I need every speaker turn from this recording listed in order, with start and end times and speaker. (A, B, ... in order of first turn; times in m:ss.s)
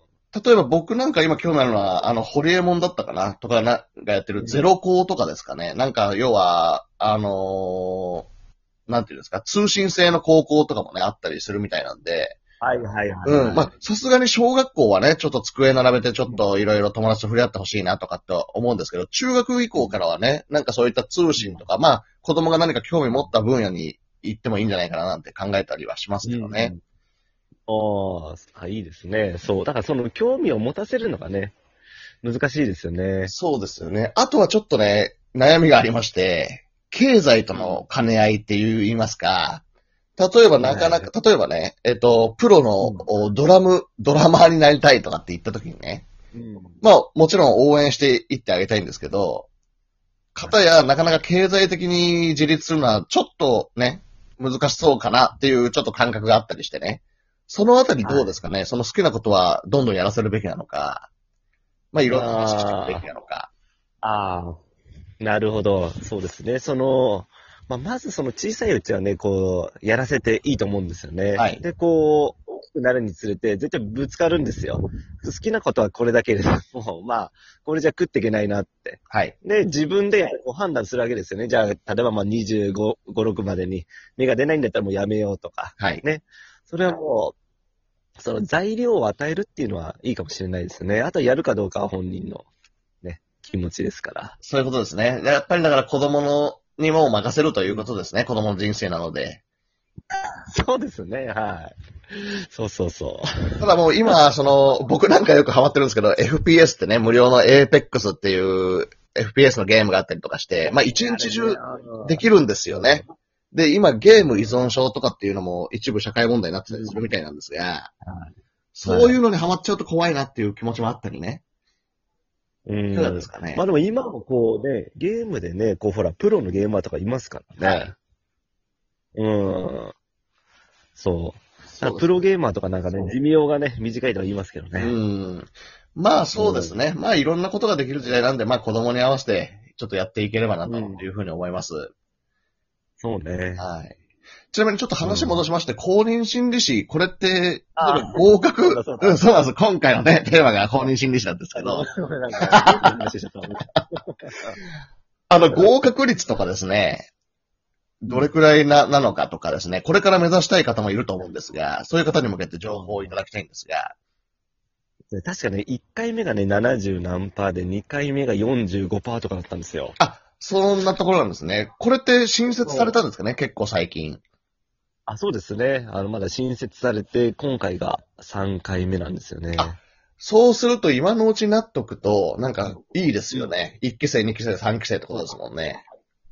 0:00.3-0:08.3 A
0:04.4-0:04.7 B
0:08.9-0:12.4 A
0:12.6-0:13.7 B
0:13.2-0:26.7 A
0:21.4-0:21.6 B
0:26.2-0:26.8 B
0:27.7-0:31.6 B
0:32.2-0:33.3 B
0:33.3-0:39.6 A
0:37.5-0:37.8 B
0:40.2-0:46.1 A
0:40.5-0:41.1 B
0:42.8-0:43.1 B
0:46.3-0:46.8 B
0:46.8-0:49.5 A
0:50.4-1:01.1 A
0:58.0-0:58.3 B
1:01.9-1:03.5 A
1:02.1-1:03.0 B
1:04.0-1:04.6 B
1:05.2-1:27.4 B
1:11.4-1:11.6 A
1:19.1-1:19.4 A
1:25.8-1:26.0 A
1:28.2-1:32.5 B
1:33.0-1:34.4 B
1:34.4-1:39.4 A
1:40.5-1:43.7 B
1:43.6-1:57.9 A
1:50.6-1:53.1 B
1:56.7-1:57.0 B
1:58.0-1:58.3 B
1:58.8-2:01.4 A
1:58.8-1:59.2 B
2:02.7-2:08.0 B
2:02.9-2:03.6 A
2:07.6-2:07.9 A
2:09.2-2:09.9 B
2:11.0-2:15.0 B
2:11.7-2:12.2 A
2:14.8-2:21.9 A
2:16.3-2:16.8 B
2:20.7-2:21.0 B
2:23.0-2:23.6 B
2:23.6-2:24.0 A
2:24.5-2:31.9 A
2:25.0-2:25.5 B
2:27.8-2:29.2 B
2:31.5-2:34.6 B
2:32.4-2:32.9 A
2:35.3-2:37.1 A
2:35.5-2:35.9 B
2:38.0-2:43.9 A
2:42.7-2:43.2 B
2:45.1-2:50.0 B
2:50.0-2:54.2 A
2:52.6-2:53.0 B
2:55.1-2:59.8 B
2:59.6-3:05.8 A